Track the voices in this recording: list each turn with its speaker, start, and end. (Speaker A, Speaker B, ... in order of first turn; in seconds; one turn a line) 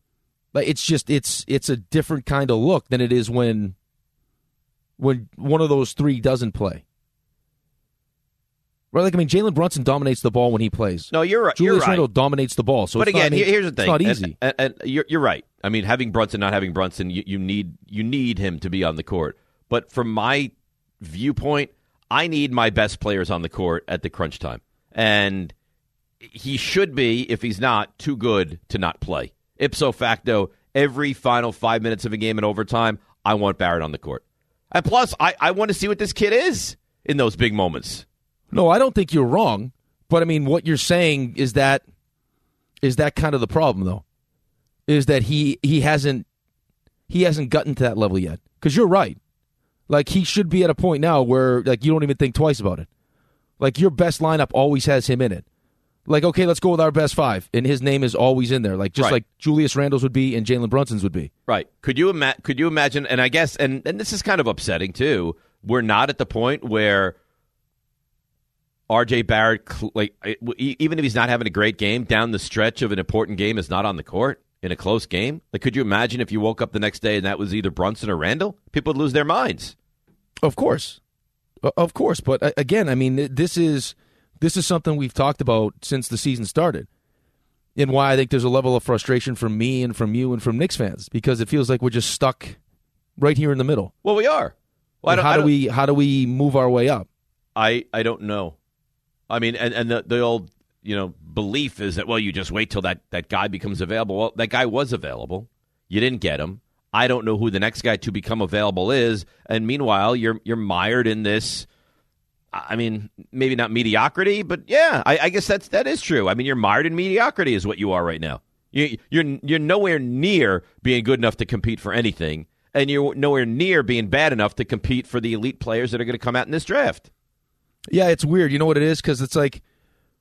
Speaker A: 0.5-3.7
Speaker A: 5.0-6.8
Speaker A: 8.9-14.3
Speaker B: 11.1-12.1
Speaker B: 13.0-25.5
Speaker B: 26.3-38.0
Speaker A: 38.5-41.8
Speaker A: 42.8-44.0
Speaker A: 44.9-46.2
Speaker A: 47.1-49.2
Speaker A: 49.9-52.9
Speaker A: 53.6-55.4
Speaker A: 56.0-61.3
Speaker B: 61.5-67.1
Speaker B: 68.9-79.7
Speaker A: 80.4-81.0
Speaker A: 81.6-86.9
Speaker A: 87.8-92.6
Speaker A: 93.2-93.9
Speaker B: 94.0-95.5
Speaker A: 95.1-97.1
Speaker B: 97.5-98.5
Speaker B: 99.3-111.7
Speaker B: 112.5-127.1
Speaker A: 127.9-129.6